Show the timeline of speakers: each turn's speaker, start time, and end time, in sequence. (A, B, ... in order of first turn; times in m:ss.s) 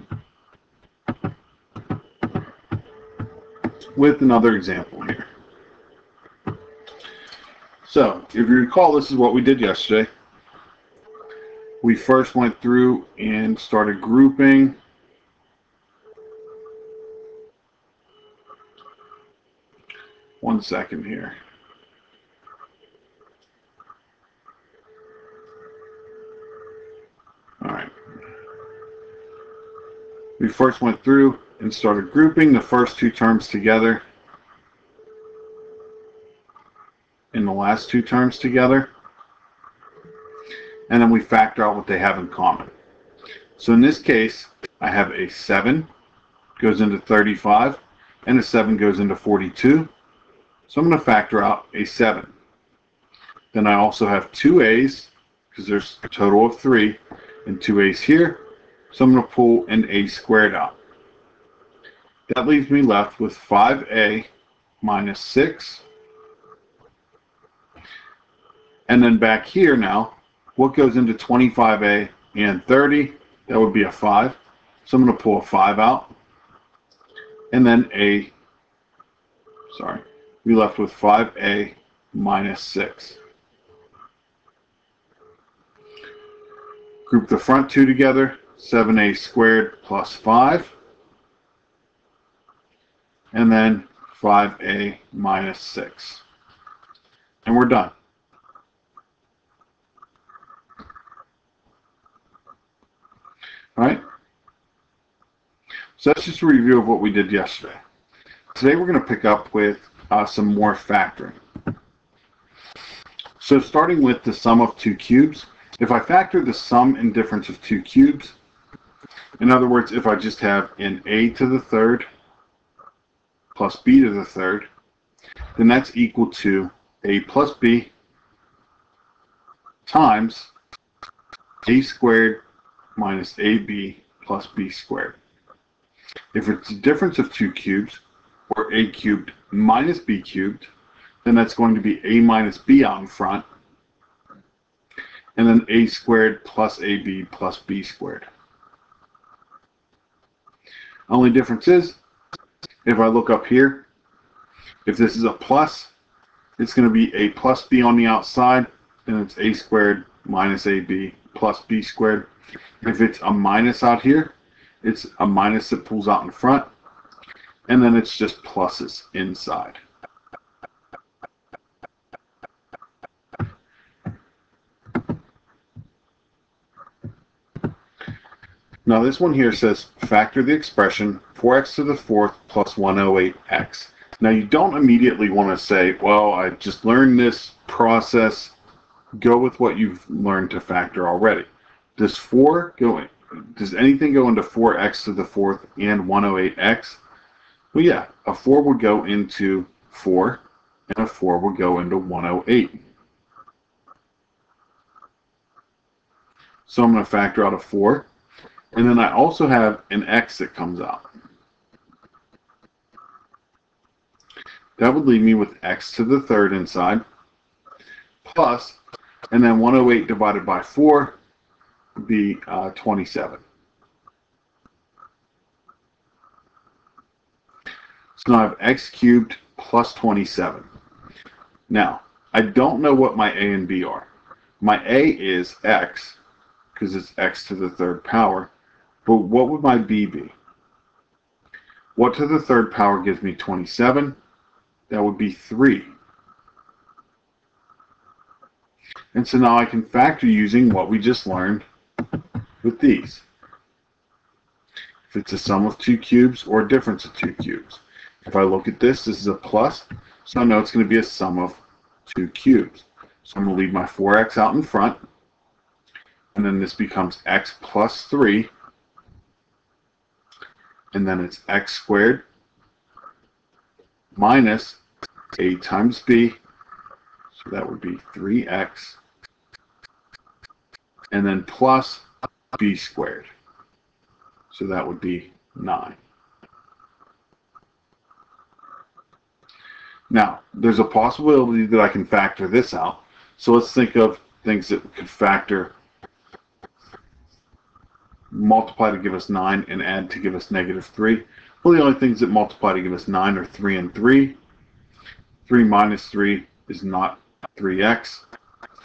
0:03.9-0:05.3 A
0:07.8-0:10.1 A
0:11.8-0:14.8 A
0:20.4-0:21.4 A
0:27.6-0:27.9 A
0:30.4-0:34.0 A
0:37.3-0:38.9 A
0:40.9-0:42.7 A
0:43.6-0:45.9 A
0:46.6-0:49.9 A
0:50.7-0:52.3 A
0:53.5-1:00.8 A
1:02.3-1:04.3 A
1:04.8-1:05.8 A
1:08.9-1:16.1 A
1:17.5-1:18.3 A
1:19.7-1:23.2 A
1:27.1-1:30.7 A
1:33.3-1:36.2 A
1:37.4-1:37.9 A
1:43.8-1:44.0 A
1:46.0-1:47.8 A
1:48.5-1:51.4 A
1:53.4-1:58.4 A
1:59.4-2:02.1 A
2:03.5-2:04.7 A
2:05.6-2:07.9 A
2:09.8-2:10.5 A
2:11.6-2:12.4 A
2:13.0-2:15.2 A
2:16.3-2:20.7 A
2:21.2-2:23.4 A
2:25.4-2:28.2 A
2:31.1-2:32.0 A
2:32.8-2:33.9 A
2:34.8-2:35.9 A
2:36.6-2:42.3 A
2:42.8-2:46.7 A
2:47.7-2:49.8 A
2:58.8-3:08.5 A
3:09.2-3:17.0 A
3:17.7-3:22.8 A
3:26.6-3:28.1 A
3:28.7-3:31.1 A
3:34.8-3:37.0 A
3:38.2-3:38.8 A
3:39.3-3:41.2 A
3:42.0-3:43.4 A
3:48.2-3:50.7 A
3:51.7-3:54.1 A
3:54.6-3:56.2 A
3:56.7-3:58.5 A
3:59.0-4:00.4 A
4:01.9-4:04.2 A
4:04.9-4:05.9 A
4:09.1-4:11.6 A
4:12.6-4:13.2 A
4:15.1-4:25.0 A
4:26.3-4:28.5 A
4:30.9-4:32.2 A
4:34.1-4:34.8 A
4:35.4-4:36.4 A
4:37.3-4:39.0 A
4:41.1-4:43.3 A
4:44.5-4:46.0 A
4:50.1-4:55.7 A
4:58.3-5:04.4 A
5:05.4-5:08.2 A